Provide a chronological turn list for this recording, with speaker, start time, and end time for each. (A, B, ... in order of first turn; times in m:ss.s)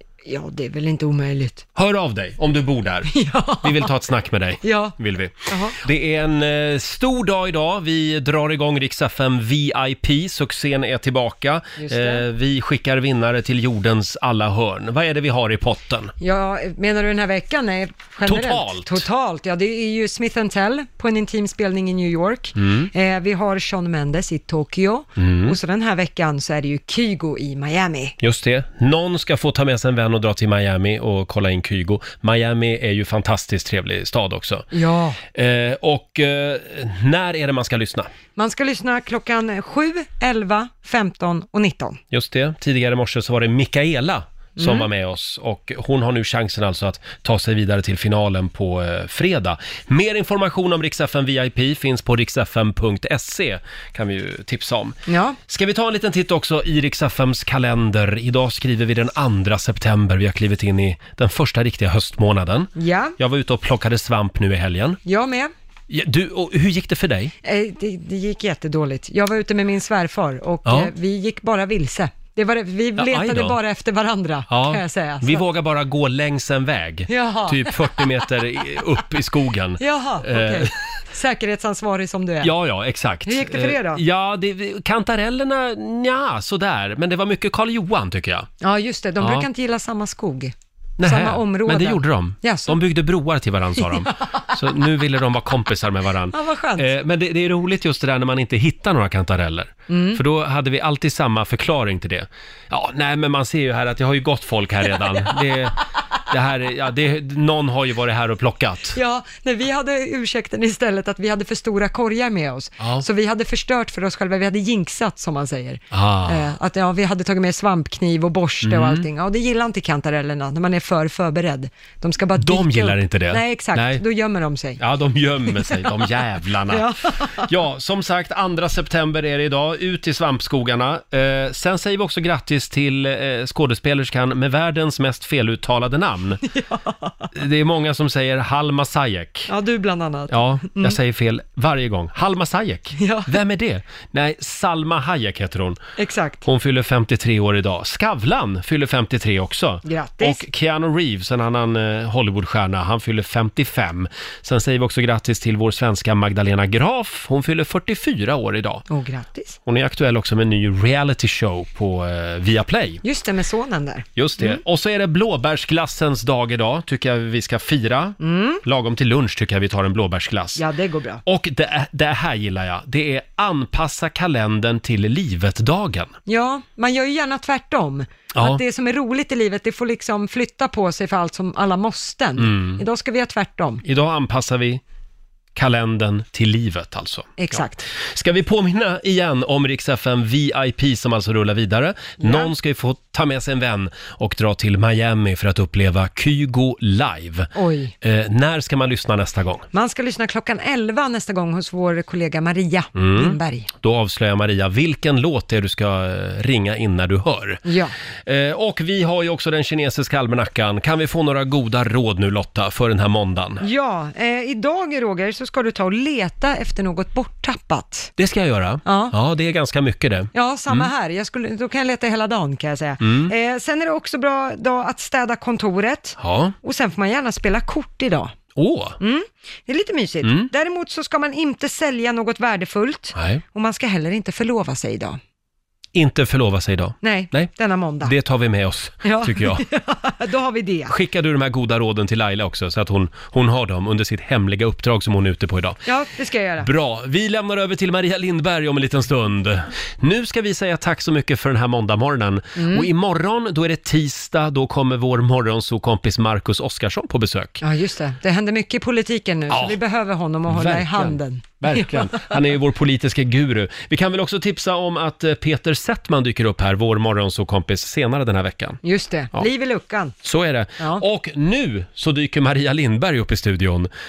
0:00.2-0:01.6 A
0:01.7-0:16.1 B
0:03.1-0:03.9 A
0:04.6-0:05.0 A
0:05.5-0:05.8 A
0:11.8-0:12.2 A
0:16.2-0:28.1 A
0:18.2-0:19.0 B
0:22.6-0:22.9 B
0:25.2-0:25.6 B
0:28.2-0:34.7 B
0:34.7-0:35.2 A
0:35.3-0:38.1 B
0:38.4-0:42.0 A
0:42.1-1:05.0 B
0:44.6-0:44.9 A
0:55.1-0:55.4 A
1:02.8-1:03.2 A
1:05.0-1:05.5 A
1:05.9-1:07.3 B
1:07.4-1:15.4 A
1:10.6-1:10.9 B
1:13.0-1:13.6 B
1:14.5-1:20.7 B
1:17.1-1:18.2 A
1:19.8-1:22.5 A
1:22.4-1:28.5 B
1:23.2-1:24.0 A
1:28.6-1:32.8 A
1:29.2-1:29.5 B
1:31.0-1:45.8 B
1:33.8-1:34.4 A
1:36.3-1:36.9 A
1:39.9-1:40.2 A
1:46.3-1:49.0 B
1:48.9-2:04.8 A
1:55.9-1:56.5 B
1:58.6-1:59.1 B
2:02.4-2:04.0 B
2:04.8-2:16.4 B
2:05.5-2:05.9 A
2:06.7-2:07.5 A
2:16.4-2:17.2 A
2:17.3-2:19.5 B
2:19.5-2:21.0 A
2:20.3-2:25.8 B
2:23.0-2:23.4 A
2:26.0-2:26.4 A
2:26.4-2:38.8 B
2:29.8-2:30.4 A
2:38.9-2:39.6 A
2:39.6-2:43.0 B
2:43.0-2:44.6 A
2:44.2-2:50.6 B
2:48.2-2:48.6 A
2:50.6-2:51.2 A
2:51.2-2:56.1 B
2:56.2-3:03.8 A
2:58.3-2:58.6 B
3:02.4-3:02.8 B
3:03.8-3:04.8 B
3:05.5-3:17.5 B
3:07.4-3:07.8 A
3:12.2-3:12.5 A
3:17.5-3:17.9 A
3:18.0-3:19.6 B
3:19.7-3:23.7 A
3:22.9-3:27.6 B
3:27.6-3:27.9 A
3:28.2-3:33.6 B
3:33.6-3:38.1 A
3:38.2-3:40.9 B
3:38.8-3:39.2 A
3:40.3-3:48.3 A
3:43.0-3:43.3 B
3:46.2-3:46.5 B
3:48.5-3:49.0 B
3:49.0-3:55.2 A
3:50.2-3:50.5 B
3:53.1-3:53.4 B
3:55.9-3:57.5 B
3:57.0-3:58.1 A
3:58.0-3:59.6 B
3:59.0-4:00.9 A
4:00.9-4:05.8 B
4:05.8-4:06.7 A
4:06.6-4:17.6 B
4:12.6-4:12.9 A
4:17.6-4:22.3 A
4:19.5-4:19.8 B
4:20.5-4:28.8 B
4:28.8-4:30.1 A
4:30.2-4:33.9 B
4:30.8-4:31.0 A